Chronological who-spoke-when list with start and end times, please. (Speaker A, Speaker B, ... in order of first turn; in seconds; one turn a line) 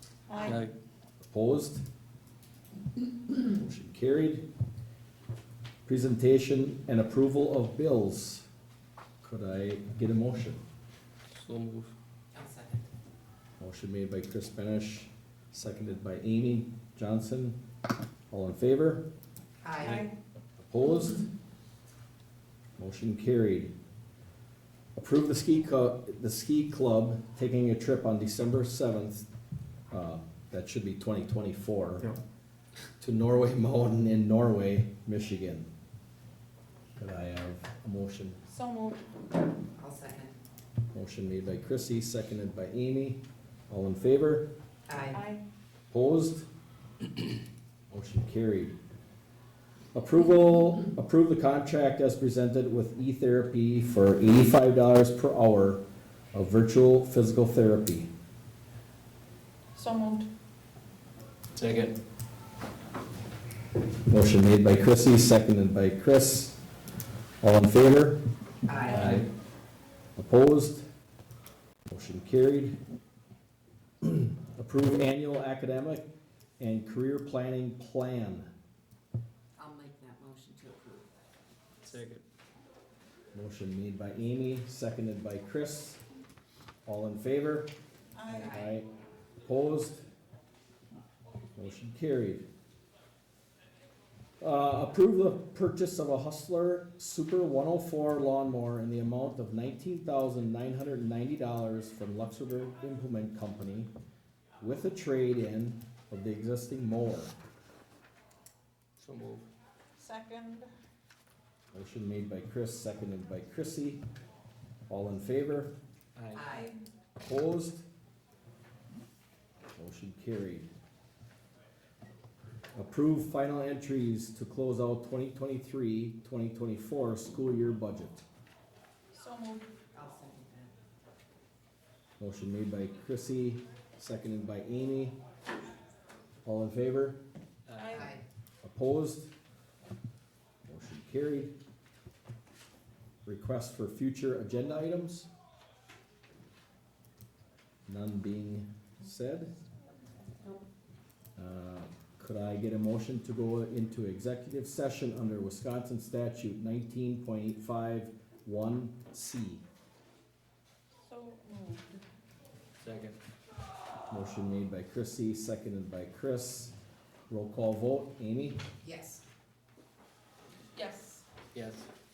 Speaker A: 0.3-0.6
Speaker B: 0.4-0.7
Speaker C: 1.2-1.8
Speaker C: 3.4-4.5
Speaker C: 5.9-8.5
Speaker C: 9.2-10.6
Speaker B: 11.3-11.9
Speaker D: 12.3-12.9
Speaker C: 13.6-17.6
Speaker C: 18.3-19.1
Speaker D: 19.6-20.1
Speaker A: 19.9-20.1
Speaker C: 20.6-21.3
Speaker C: 22.8-23.7
Speaker C: 24.9-29.3
Speaker C: 29.9-32.1
Speaker C: 33.0-35.7
Speaker C: 37.0-38.4
Speaker A: 38.5-39.0
Speaker D: 39.8-40.4
Speaker C: 40.9-44.5
Speaker D: 44.9-45.2
Speaker A: 45.1-45.4
Speaker C: 45.9-46.5
Speaker C: 47.9-48.8
Speaker C: 49.9-55.8
Speaker C: 56.3-58.1
Speaker A: 59.8-60.3
Speaker B: 61.5-62.0
Speaker C: 64.1-66.6
Speaker C: 67.4-68.2
Speaker D: 68.7-69.2
Speaker B: 68.9-69.3
Speaker C: 70.2-70.8
Speaker C: 71.9-72.8
Speaker C: 74.0-78.5
Speaker D: 79.6-81.1
Speaker B: 81.8-82.2
Speaker C: 83.3-86.0
Speaker C: 86.9-87.7
Speaker A: 88.2-88.5
Speaker D: 88.3-88.8
Speaker C: 88.3-88.9
Speaker C: 89.5-90.0
Speaker C: 91.6-92.4
Speaker C: 94.4-103.9
Speaker C: 104.6-107.3
Speaker B: 109.0-109.5
Speaker A: 110.0-110.7
Speaker C: 111.7-114.0
Speaker C: 114.9-115.7
Speaker B: 116.2-116.5
Speaker D: 116.3-116.8
Speaker C: 117.2-117.8
Speaker C: 119.8-120.7
Speaker C: 122.7-128.2
Speaker A: 129.1-129.7
Speaker D: 129.9-130.7
Speaker C: 132.2-135.2
Speaker C: 136.4-137.2
Speaker B: 137.7-138.1
Speaker A: 137.8-138.1
Speaker D: 137.9-138.2
Speaker C: 138.6-139.3
Speaker C: 140.7-141.5
Speaker C: 143.3-145.3
Speaker C: 147.9-149.5
Speaker C: 151.4-159.6
Speaker A: 161.1-162.0
Speaker B: 162.8-163.2
Speaker C: 164.1-166.7
Speaker C: 167.3-168.6
Speaker D: 168.8-169.2
Speaker A: 170.8-171.2
Speaker B: 171.5-171.9